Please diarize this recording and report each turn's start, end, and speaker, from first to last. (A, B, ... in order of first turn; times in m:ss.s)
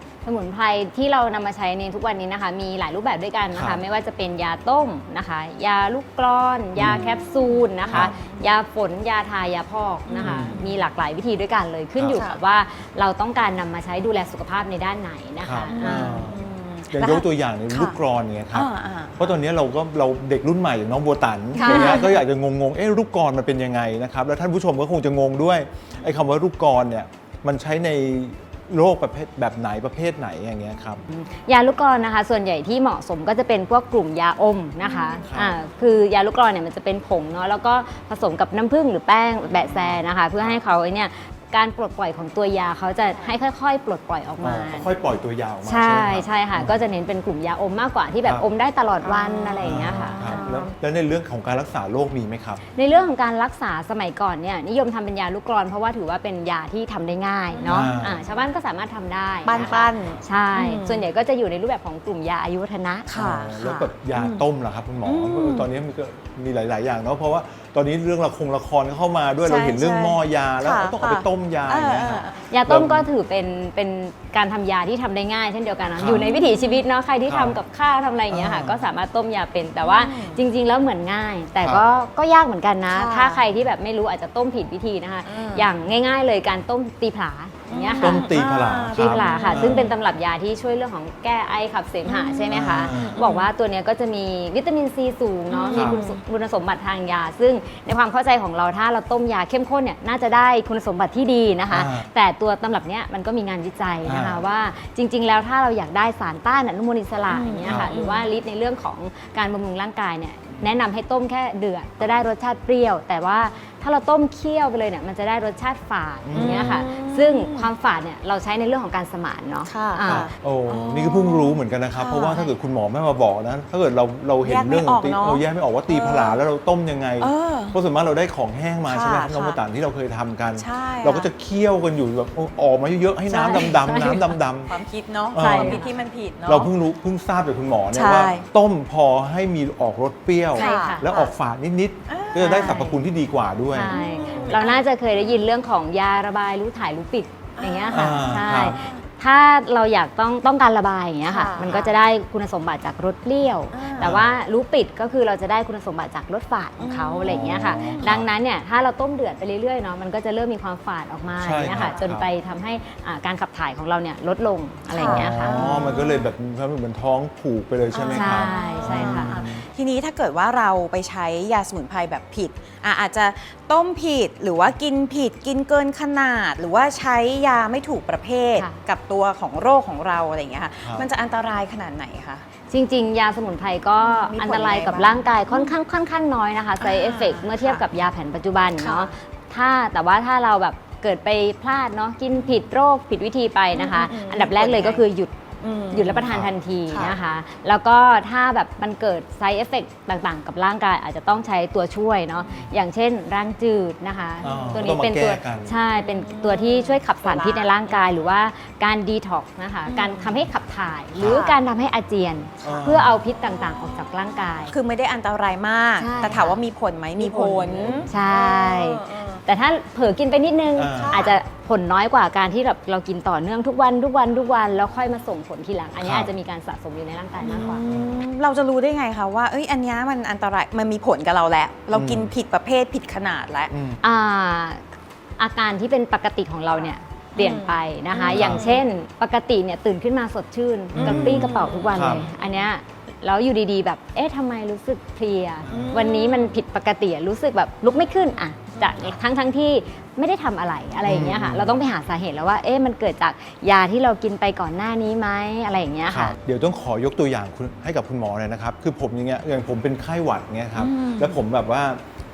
0:00.2-0:16.3 A
0:03.5-0:03.8 B
0:06.8-0:07.0 B
0:07.4-0:08.5 C
0:07.9-0:08.2 B
0:10.1-0:10.8 C
0:10.2-0:10.6 B
0:12.0-0:12.2 B
0:12.1-0:12.4 C
0:15.4-0:31.0 B
0:15.7-0:18.0 C
0:18.5-0:19.3 C
0:21.6-0:22.1 A
0:21.6-0:22.2 C
0:31.1-0:44.9 A
0:34.8-0:35.3 C
0:35.3-0:35.6 B
0:43.1-0:43.3 C
0:44.4-0:46.8 B
0:45.6-0:50.4 A
0:49.0-0:50.7 C
0:49.6-0:52.6 B
0:52.7-1:03.1 A
0:57.5-0:58.0 C
0:57.7-0:58.2 B
0:59.4-1:01.1 C
1:03.1-1:04.4 C
1:03.2-1:13.1 B
1:05.0-1:05.7 C
1:09.4-1:12.5 C
1:12.5-1:28.3 A
1:16.0-1:16.3 B
1:16.1-1:16.8 C
1:17.3-1:17.6 B
1:18.3-1:18.8 B
1:19.8-1:20.4 C
1:22.9-1:23.4 C
1:25.2-1:25.7 C
1:27.7-1:29.9 C
1:28.0-1:29.9 B
1:28.9-2:00.3 A
1:32.0-1:33.5 C
1:32.5-1:33.2 B
1:35.5-1:36.2 C
1:35.7-1:36.0 B
1:41.7-1:42.1 B
1:44.0-1:44.4 B
1:47.3-1:48.3 C
1:47.6-1:47.9 B
1:56.2-1:56.9 B
1:56.4-1:57.7 C
1:59.7-2:02.5 C
2:00.0-2:14.8 B
2:04.4-2:06.4 C
2:07.2-2:07.8 C
2:08.9-2:09.6 C
2:10.6-2:11.3 C
2:13.3-2:14.0 C
2:13.3-2:14.4 A
2:14.7-2:16.7 C
2:15.3-2:15.8 B
2:15.4-2:15.9 A
2:16.5-2:24.5 B
2:17.9-2:18.5 C
2:20.6-2:21.0 C
2:20.6-2:21.3 A
2:22.1-2:22.6 C
2:22.4-2:23.0 A
2:23.7-2:45.7 A
2:23.8-2:24.9 C
2:27.6-2:29.0 C
2:27.9-2:28.8 B
2:31.3-2:31.9 C
2:31.6-2:31.9 B
2:33.7-2:34.2 C
2:34.0-2:34.3 B
2:36.8-2:38.1 C
2:37.2-2:38.3 B
2:41.4-2:42.3 B
2:41.7-2:42.0 C
2:44.9-2:46.3 C
2:45.0-2:49.6 B
2:47.9-3:02.4 C
2:48.1-2:49.5 A
2:58.6-2:58.8 A
3:02.7-3:15.3 A
3:04.0-3:05.7 C
3:06.8-3:07.8 C
3:08.8-3:09.1 C
3:13.7-3:15.0 C
3:15.6-3:16.3 C
3:15.9-3:34.7 A
3:16.3-3:16.5 B
3:16.9-3:17.2 C
3:22.4-3:22.7 C
3:24.4-3:25.8 B
3:24.4-3:24.8 C
3:26.0-3:28.1 C
3:29.9-3:30.4 C
3:31.2-3:31.5 B
3:31.2-3:31.6 C
3:32.6-3:32.9 C
3:32.6-3:33.2 B
3:34.7-3:39.4 C
3:36.0-3:36.6 A
3:37.2-3:47.8 A
3:37.6-3:38.1 B
3:40.8-3:41.3 B
3:41.0-3:41.4 C
3:46.0-3:46.3 B
3:47.4-3:53.7 C
3:47.9-3:48.2 B
3:51.9-3:52.3 B
3:53.7-3:54.0 B
3:54.0-3:54.8 A
3:55.4-4:16.4 A
3:57.4-3:58.8 C
3:58.2-3:58.8 B
4:00.9-4:02.3 B
4:01.0-4:02.6 C
4:05.6-4:06.0 B
4:05.7-4:06.6 C
4:11.0-4:11.8 B
4:16.1-4:22.0 B
4:20.8-4:21.4 C